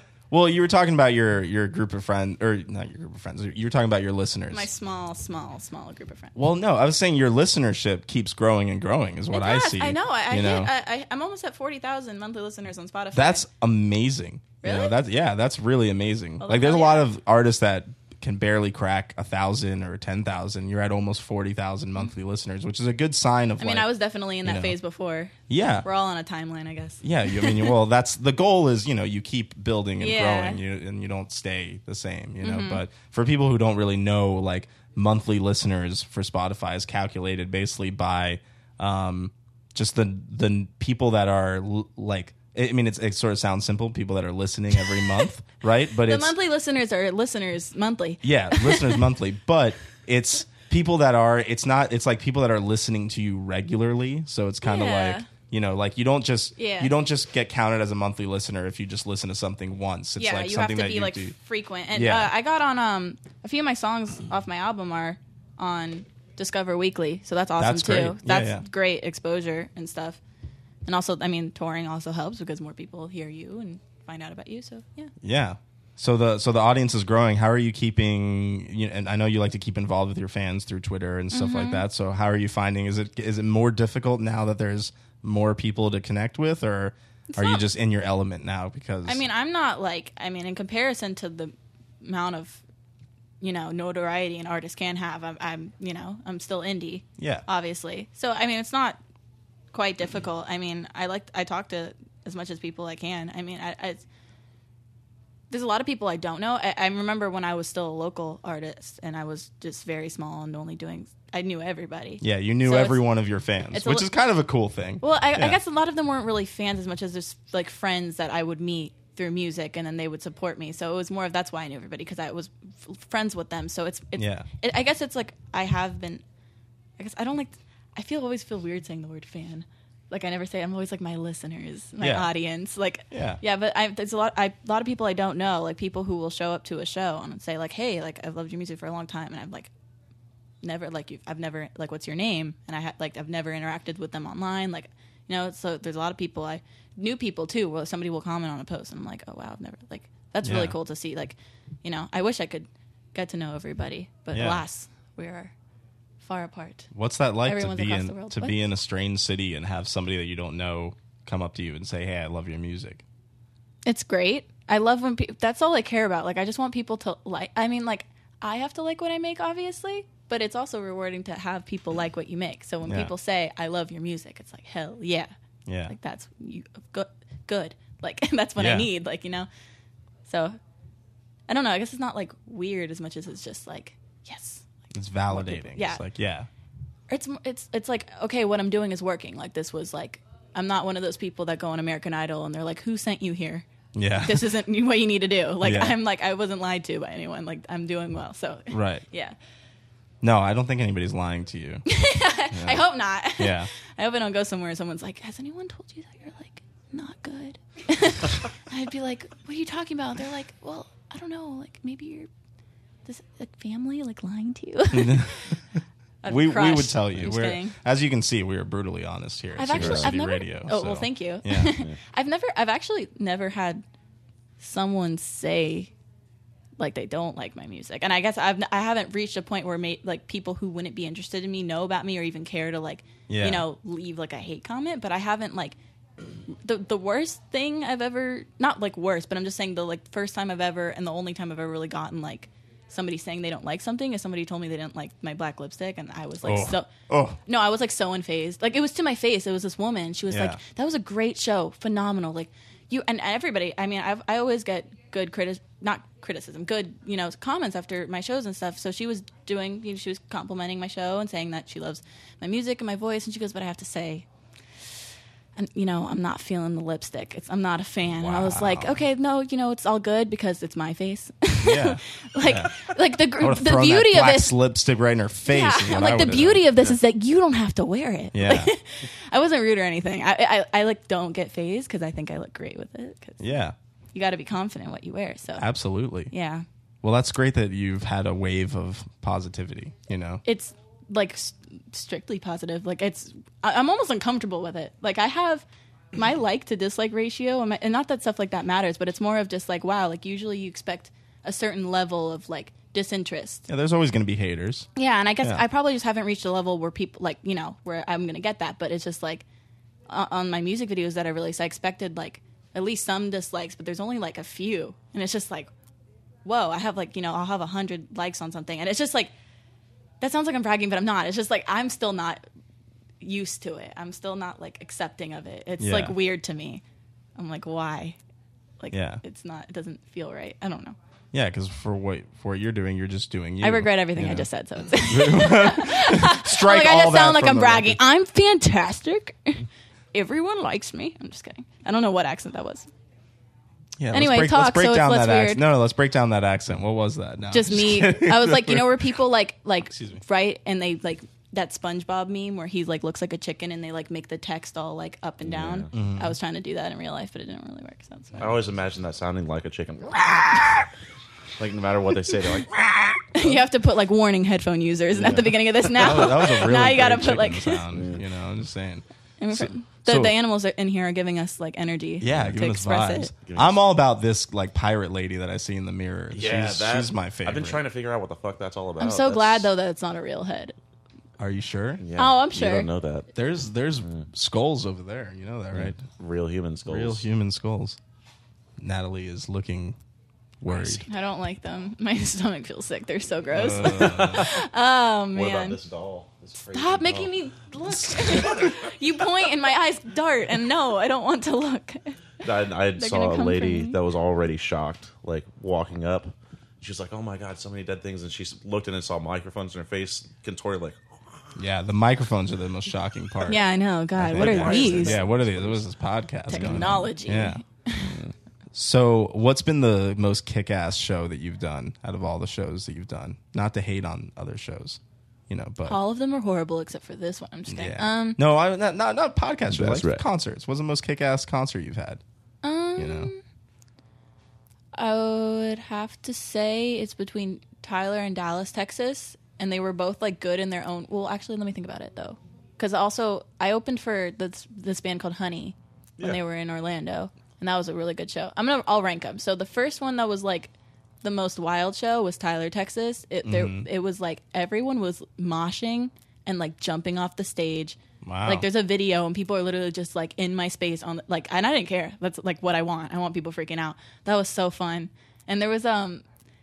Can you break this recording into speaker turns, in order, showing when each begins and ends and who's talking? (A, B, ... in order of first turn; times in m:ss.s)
0:00.3-0:04.7 A
0:04.5-0:06.3 B
0:06.3-0:10.7 A
0:09.3-0:13.4 B
0:13.1-0:23.9 A
0:14.6-0:14.9 B
0:16.4-0:17.1 B
0:23.6-0:27.7 B
0:24.4-0:24.7 A
0:25.5-0:25.8 A
0:27.0-0:46.3 A
0:30.0-0:30.6 B
0:32.4-0:32.8 B
0:46.0-0:49.0 B
0:48.2-1:01.3 A
0:54.6-0:55.3 B
0:56.6-0:56.9 B
1:00.2-1:10.2 B
1:01.9-1:02.3 A
1:07.6-1:08.6 A
1:10.8-1:15.1 B
1:15.2-1:29.2 A
1:21.3-1:21.8 B
1:27.3-1:27.6 B
1:29.0-1:32.6 B
1:33.4-1:39.0 B
1:37.2-1:37.4 A
1:39.7-1:44.0 B
1:45.5-1:53.0 B
1:52.2-1:55.6 A
1:53.7-1:54.1 B
1:55.0-2:06.2 B
2:04.2-2:04.5 A
2:07.0-2:19.7 B
2:12.0-2:12.3 A
2:13.1-2:13.4 A
2:20.6-2:35.5 B
2:30.4-2:30.8 A
2:34.3-2:34.6 A
2:36.2-2:36.9 B
2:36.9-2:43.0 A
2:37.4-2:38.6 B
2:43.8-2:55.3 B
2:52.8-2:53.1 A
2:55.7-2:55.9 A
2:55.9-2:59.5 B
2:58.6-2:58.9 A
3:00.2-3:00.6 B
3:01.5-3:04.7 B
3:04.9-3:06.5 A
3:05.3-3:06.0 B
3:07.1-3:19.4 B
3:13.9-3:14.5 A
3:15.6-3:16.0 A
3:18.7-3:19.0 A
3:20.2-3:21.8 A
3:21.8-3:32.3 B
3:22.5-3:22.8 A
3:23.4-3:23.7 A
3:33.0-3:35.6 B
3:34.9-3:35.5 A
3:36.2-3:37.7 B
3:36.3-3:41.7 A
3:39.6-3:43.8 B
3:39.7-3:40.1 C
3:44.6-3:45.9 B
3:46.8-3:55.8 B
3:53.3-3:53.6 A
3:56.5-4:06.9 B
4:06.4-4:07.4 A
4:07.4-4:24.2 B
4:10.3-4:10.6 A
4:25.6-4:34.6 B
4:28.2-4:29.0 A
4:31.6-4:36.8 A
4:35.5-4:43.4 B
4:38.3-4:38.7 A
4:43.4-4:43.7 A
4:44.1-4:45.6 B
4:45.6-4:46.3 A
4:46.3-4:46.6 B
4:47.0-4:50.4 A
4:50.4-5:03.6 B
5:03.7-5:04.9 A
5:05.0-5:09.4 B
5:10.1-5:15.7 B
5:16.4-5:19.3 B
5:20.2-5:22.4 B
5:23.2-5:26.8 B
5:25.8-5:26.1 A
5:27.4-5:28.2 B
5:28.8-5:31.0 B
5:28.9-5:29.2 A
5:31.3-5:34.5 A
5:33.6-5:42.9 B
5:35.0-5:38.0 A
5:44.0-5:49.1 A
5:44.1-5:45.6 B
5:47.5-5:58.5 B
5:49.9-5:50.2 A
5:55.4-5:55.9 C
5:55.9-5:56.4 A
5:58.4-6:00.9 C
6:01.6-6:03.5 C
6:03.3-6:07.8 B
6:05.2-6:05.6 C
6:05.9-6:10.3 A
6:07.9-6:08.2 C
6:09.4-6:13.3 B
6:12.2-6:17.8 A
6:13.4-6:13.8 C
6:16.3-6:19.7 C
6:19.0-6:20.7 B
6:21.4-6:22.0 A
6:22.0-6:23.3 C
6:22.2-6:22.9 B
6:23.3-6:26.0 A
6:25.7-6:27.2 C
6:26.8-6:28.0 A
6:28.8-6:30.0 A
6:30.6-6:31.0 A
6:30.6-6:31.1 C
6:31.1-6:35.8 B
6:33.5-6:34.5 A
6:33.9-6:34.6 C
6:35.3-6:37.3 C
6:36.7-6:42.2 B
6:38.1-6:38.9 C
6:42.4-6:51.2 C
6:43.0-6:44.0 B
6:51.6-6:53.6 A
6:53.4-6:55.2 B
6:54.2-6:57.6 A
6:54.3-6:55.8 C
6:56.5-6:58.2 B
6:56.6-6:57.0 C
6:58.0-6:58.3 C
6:58.7-7:06.0 A
7:05.8-7:08.4 B
7:07.7-7:12.2 A
7:09.7-7:10.2 C
7:12.6-7:13.4 B
7:13.0-7:13.3 A
7:14.9-7:46.2 B
7:33.4-7:33.9 A
7:38.2-7:38.6 A